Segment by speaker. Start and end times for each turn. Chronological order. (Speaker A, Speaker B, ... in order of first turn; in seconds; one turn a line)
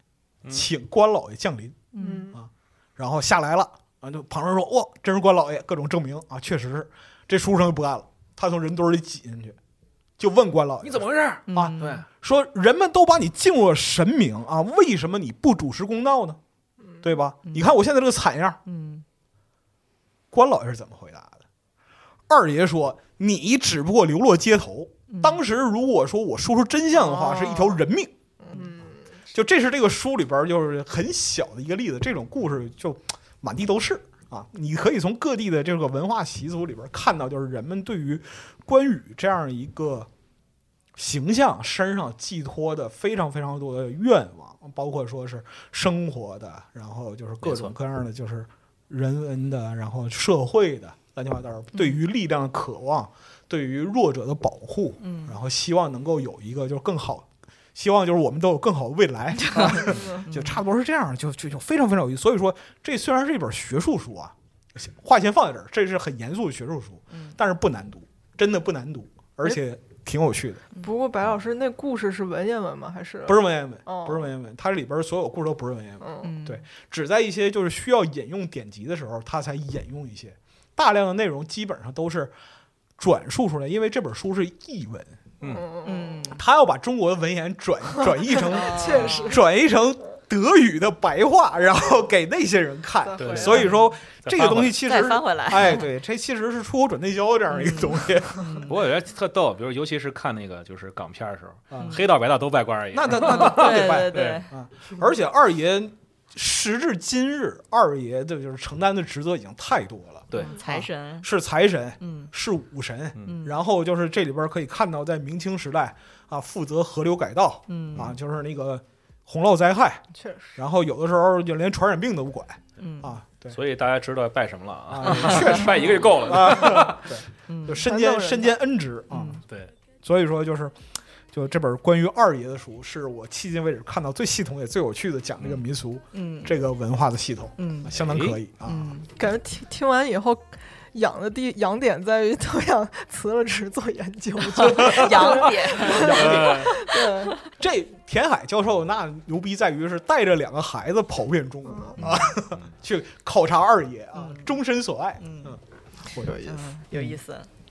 Speaker A: 0.4-0.7
Speaker B: 0.5-9.6
Speaker C: 1.9-2.3
Speaker D: 2.0-2.4
Speaker B: 10.2-16.4
Speaker A: 10.8-12.1
Speaker C: 11.5-12.0
Speaker B: 17.0-18.6
Speaker C: 17.4-17.7
Speaker C: 18.7-19.1
Speaker B: 20.3-21.4
Speaker B: 22.3-28.1
Speaker C: 25.1-25.4
Speaker D: 27.0-27.8
Speaker D: 28.4-29.1
Speaker B: 29.3-40.1
Speaker B: 41.0-70.7
Speaker A: 47.4-47.7
Speaker C: 51.7-52.0
Speaker C: 55.0-55.4
Speaker C: 59.4-60.6
Speaker C: 67.1-67.4
Speaker D: 70.8-74.3
Speaker B: 73.3-82.3
Speaker D: 76.0-76.3
Speaker C: 76.2-76.7
Speaker B: 83.0-85.2
Speaker A: 85.4-85.7
Speaker D: 85.5-86.2
Speaker C: 85.8-86.4
Speaker B: 86.3-98.6
Speaker D: 88.3-89.4
Speaker C: 88.5-89.4
Speaker D: 93.0-93.7
Speaker A: 93.2-94.8
Speaker C: 93.4-93.8
Speaker C: 94.9-95.9
Speaker C: 97.5-98.8
Speaker A: 98.7-104.3
Speaker B: 101.7-102.0
Speaker B: 102.9-120.0
Speaker C: 103.2-104.5
Speaker C: 110.4-111.3
Speaker C: 112.0-112.3
Speaker C: 113.2-113.5
Speaker C: 117.7-118.1
Speaker D: 120.2-120.6
Speaker B: 120.6-123.6
Speaker C: 122.8-123.2
Speaker A: 123.5-127.1
Speaker B: 124.9-129.4
Speaker C: 125.0-126.0
Speaker C: 127.5-127.8
Speaker D: 127.8-128.6
Speaker C: 129.1-129.4
Speaker B: 130.0-130.8
Speaker B: 131.3-139.0
Speaker A: 135.4-135.7
Speaker C: 136.1-136.5
Speaker C: 137.6-137.9
Speaker A: 137.9-138.4
Speaker C: 138.7-139.1
Speaker D: 139.2-147.4
Speaker C: 144.6-147.3
Speaker B: 145.9-146.8
Speaker A: 146.3-146.7
Speaker B: 147.4-155.6
Speaker D: 151.7-152.1
Speaker A: 152.0-152.3
Speaker C: 154.2-154.6
Speaker C: 155.2-155.6
Speaker B: 156.1-157.2
Speaker D: 156.1-156.7
Speaker C: 156.5-157.5